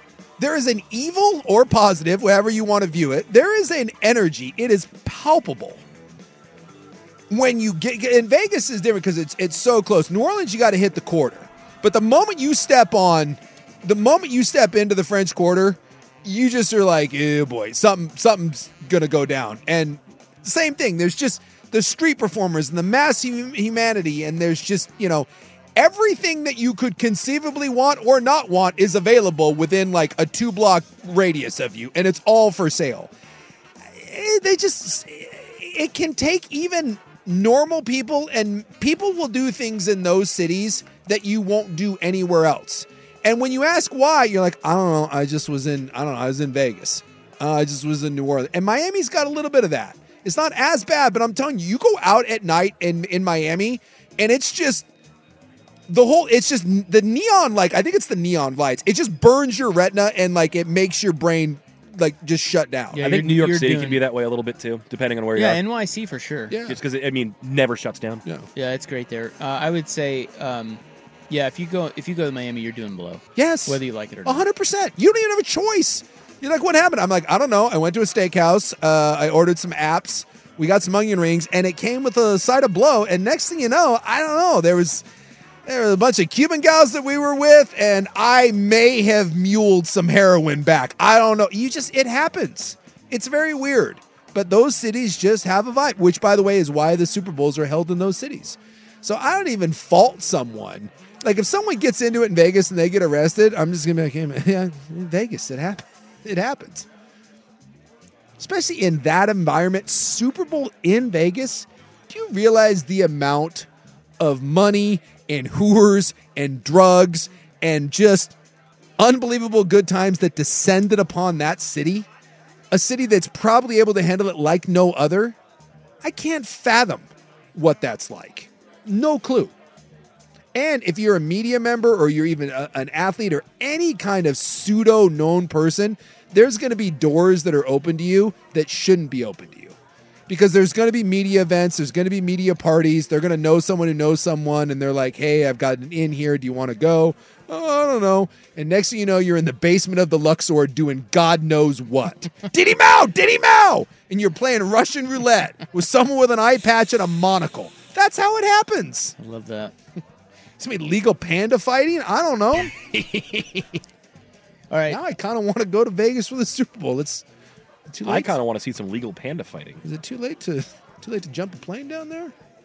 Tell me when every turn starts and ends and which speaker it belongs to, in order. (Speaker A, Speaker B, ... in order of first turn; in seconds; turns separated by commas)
Speaker A: 0.4-5.8, Speaker A: 7.3-33.1, Speaker A: 33.8-54.9, Speaker A: 55.9-63.1, Speaker B: 62.9-64.0, Speaker C: 63.0-65.6, Speaker B: 65.4-66.5, Speaker A: 66.5-66.8, Speaker C: 66.7-68.2, Speaker B: 68.5-74.5, Speaker A: 73.4-85.0, Speaker A: 85.7-106.9, Speaker A: 108.4-113.7, Speaker A: 114.2-118.3, Speaker A: 119.0-122.1, Speaker A: 122.7-125.4, Speaker A: 126.0-129.5, Speaker A: 130.5-139.8, Speaker A: 140.3-159.2, Speaker B: 159.2-159.7, Speaker A: 160.6-163.8, Speaker B: 164.7-165.0, Speaker A: 164.9-167.2, Speaker A: 167.9-168.4, Speaker C: 168.0-169.8, Speaker A: 169.8-172.3